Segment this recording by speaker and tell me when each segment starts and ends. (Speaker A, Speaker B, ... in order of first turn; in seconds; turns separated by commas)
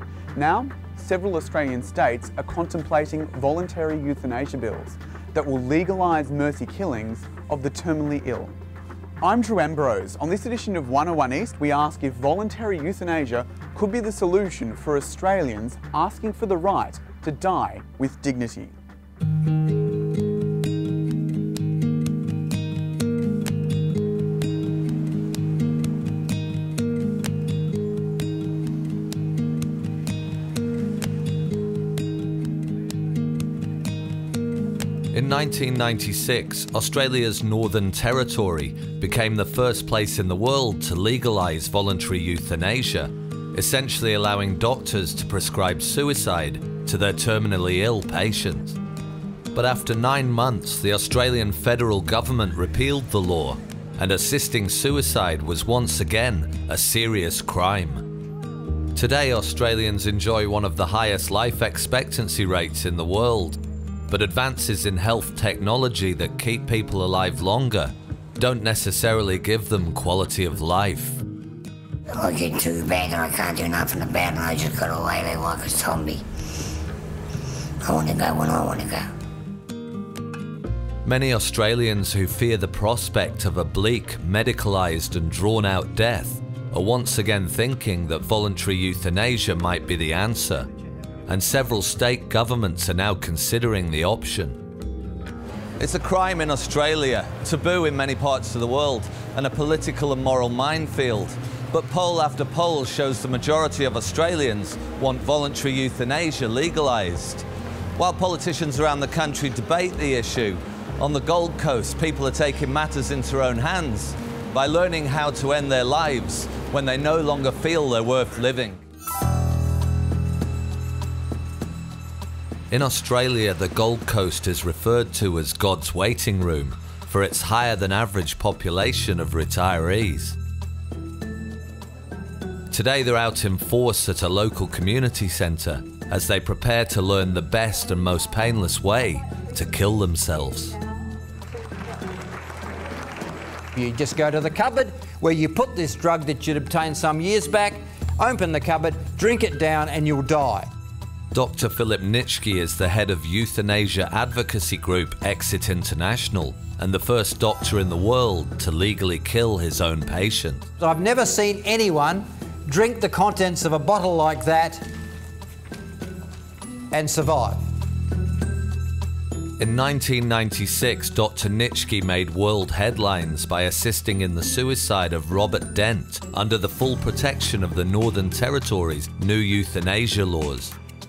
Speaker A: 0.3-8.6, Speaker A: 9.2-18.8, Speaker B: 35.1-48.8, Speaker B: 49.5-58.0, Speaker B: 59.0-71.2, Speaker C: 72.1-76.2, Speaker C: 77.8-79.1, Speaker B: 81.0-90.7, Speaker B: 91.3-94.6, Speaker B: 95.8-107.5, Speaker B: 108.0-118.8, Speaker B: 122.7-130.4, Speaker B: 132.7-140.8, Speaker D: 143.8-150.7, Speaker B: 151.3-160.7, Speaker D: 160.8-164.9, Speaker D: 166.9-167.6, Speaker B: 169.6-180.8